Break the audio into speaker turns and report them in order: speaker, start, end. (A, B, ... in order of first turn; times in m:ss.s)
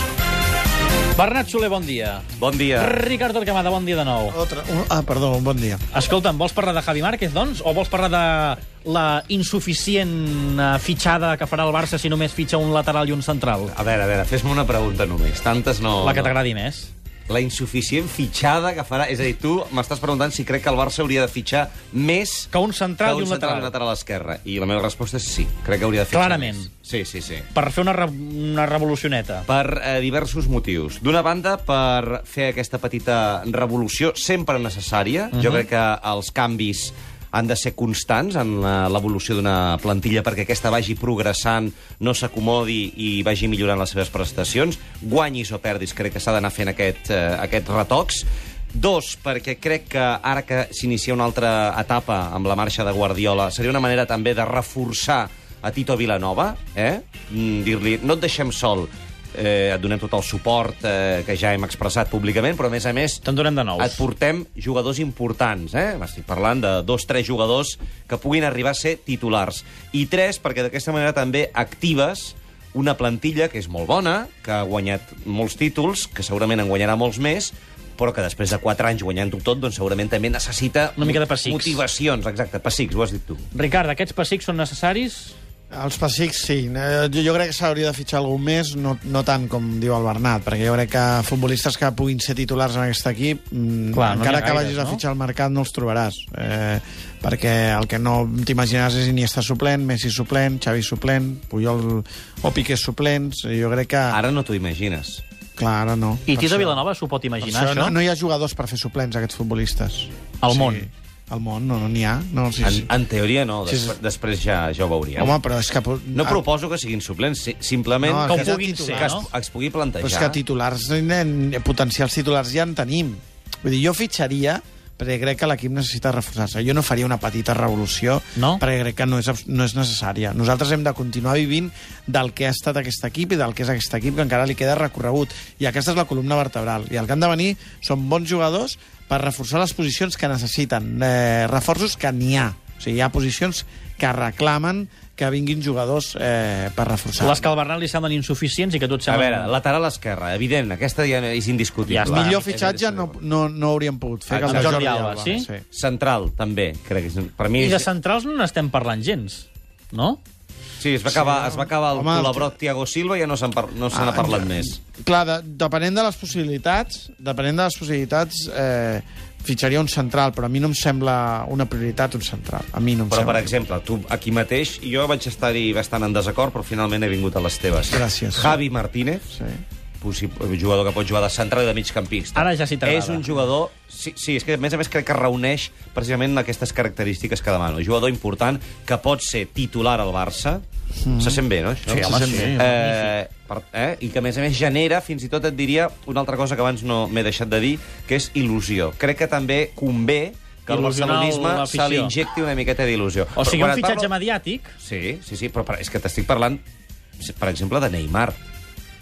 0:01.2-0:04.4 A
0:02.4-0:03.0 B
0:04.3-0:05.8 C
0:05.9-0:13.7 A
0:13.7-0:16.3 B
0:16.0-0:16.9 A
0:17.3-0:22.5 B
0:22.5-0:23.7 A
0:23.0-0:27.5 B
0:26.1-0:26.7 A
0:27.5-0:29.4 A
0:29.5-1:03.2 B
0:35.3-0:35.7 A
1:03.2-1:04.0 A
1:03.8-1:23.5 B
1:21.0-1:21.8 A
1:23.5-1:25.4 A
1:25.7-1:44.2 C
1:33.9-1:35.0 A
1:44.1-1:45.2 B
1:45.6-1:46.8 C
1:46.3-1:48.0 A
1:47.4-1:52.9 C
1:50.4-1:50.9 A
1:52.6-1:55.4 B
1:53.6-1:54.0 C
1:55.2-1:56.4 C
1:56.2-2:00.4 B
1:58.0-1:59.2 C
1:58.2-1:59.3 A
2:00.0-2:27.5 C
2:08.4-2:08.6 A
2:27.2-2:29.5 A
2:29.1-2:33.2 B
2:31.9-2:32.4 A
2:32.0-2:35.6 C
2:34.3-2:35.0 B
2:34.4-2:35.5 A
2:35.7-2:37.9 B
2:37.6-2:40.2 A
2:40.8-2:44.8 B
2:41.1-2:42.6 C
2:43.9-2:53.5 C
2:53.1-2:59.3 B
2:57.9-2:58.6 C
2:59.3-2:59.6 C
3:00.0-3:10.6 B
3:02.4-3:03.4 A
3:11.0-3:11.4 C
3:11.2-3:24.1 B
3:11.9-3:13.1 A
3:20.7-3:22.2 A
3:23.4-3:24.8 A
3:24.8-3:26.6 B
3:27.2-3:28.4 B